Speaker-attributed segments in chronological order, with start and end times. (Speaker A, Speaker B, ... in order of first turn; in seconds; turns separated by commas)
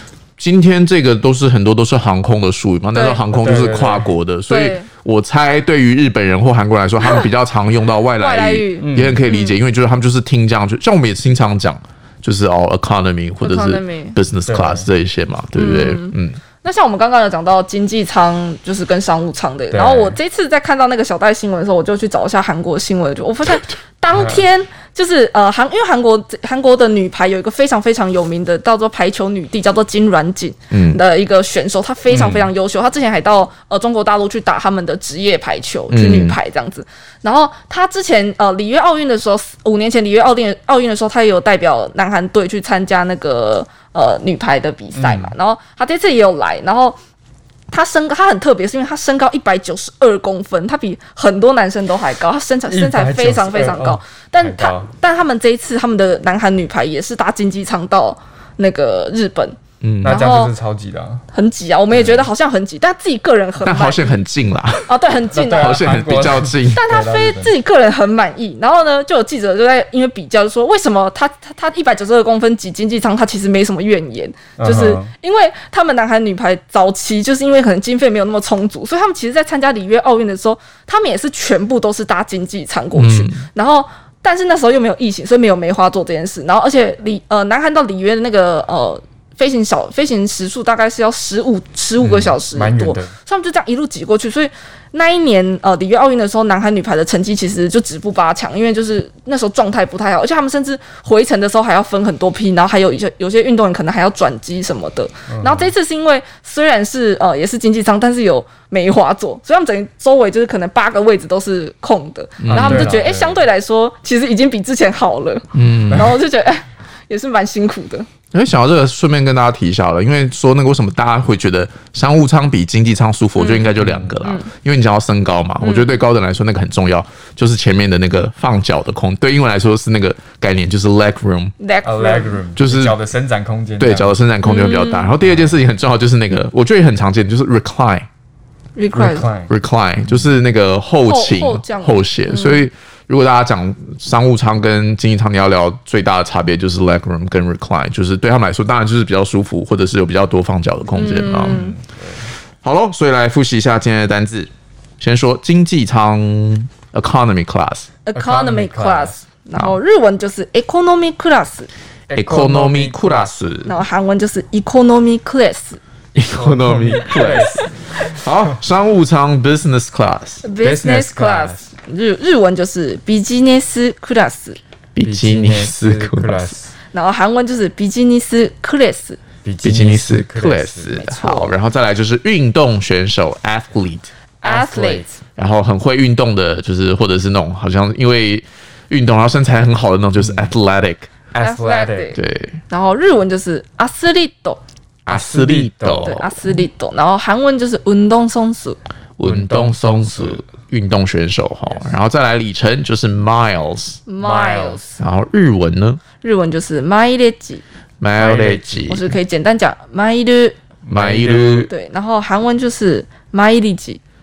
Speaker A: 0.4-16.4, Speaker B: 2.9-3.2, Speaker C: 3.3-4.1, Speaker B: 4.5-4.9, Speaker B: 8.2-9.6, Speaker C: 8.8-9.3, Speaker B: 13.4-14.2, Speaker C: 14.5-14.9, Speaker B: 15.6-47.0, Speaker C: 19.7-20.2, Speaker C: 24.1-24.4, Speaker A: 30.7-31.0, Speaker C: 32.1-32.5, Speaker A: 35.9-36.4, Speaker C: 44.9-45.3, Speaker B: 47.7-60.5, Speaker C: 52.7-54.9, Speaker A: 59.8-60.2, Speaker C: 60.0-61.2, Speaker B: 61.3-64.0, Speaker C: 61.9-62.3, Speaker A: 63.6-65.0, Speaker B: 64.8-65.8, Speaker C: 65.3-67.5, Speaker A: 65.5-66.8, Speaker B: 66.7-118.1, Speaker C: 74.6-75.1, Speaker A: 82.9-83.5, Speaker C: 92.0-93.1, Speaker C: 105.3-105.7, Speaker A: 112.4-113.0, Speaker C: 112.5-113.4, Speaker A: 115.5-116.2, Speaker A: 118.3-131.5, Speaker B: 123.3-124.5, Speaker C: 123.8-124.2, Speaker B: 131.6-132.4, Speaker C: 131.8-134.2, Speaker A: 132.6-133.0, Speaker A: 133.8-138.1, Speaker B: 134.4-135.1, Speaker C: 135.2-135.6, Speaker B: 138.8-139.3, Speaker C: 138.9-139.5, Speaker A: 139.5-151.6, Speaker B: 141.1-142.6, Speaker B: 150.9-151.8, Speaker C: 151.2-152.3, Speaker A: 152.6-157.9, Speaker B: 158.1-161.7, Speaker C: 158.2-159.2, Speaker C: 162.1-163.4, Speaker A: 162.1-163.7, Speaker B: 163.7-165.8, Speaker C: 166.1-167.7, Speaker A: 166.2-170.4, Speaker B: 170.4-174.6, Speaker C: 170.6-171.7, Speaker A: 174.9-176.6, Speaker C: 175.0-176.7, Speaker B: 176.9-179.2, Speaker C: 179.4-180.9, Speaker A: 179.6-184.1, Speaker B: 180.9-181.5, Speaker B: 184.4-185.1, Speaker C: 184.4-185.1, Speaker A: 185.3-191.1, Speaker C: 190.2-190.5, Speaker C: 191.3-192.1, Speaker B: 191.4-192.2, Speaker A: 192.1-192.6, Speaker B: 192.7-194.6, Speaker A: 195.1-196.5, Speaker C: 195.1-196.2, Speaker B: 196.0-198.8, Speaker A: 199.2-204.0, Speaker C: 199.2-200.5, Speaker B: 204.1-205.0, Speaker C: 204.2-204.8, Speaker A: 205.0-206.0, Speaker B: 206.2-207.6, Speaker A: 208.0-209.1, Speaker C: 208.1-209.0, Speaker B: 208.9-210.6, Speaker C: 210.8-211.7, Speaker A: 210.9-211.7, Speaker B: 211.7-214.0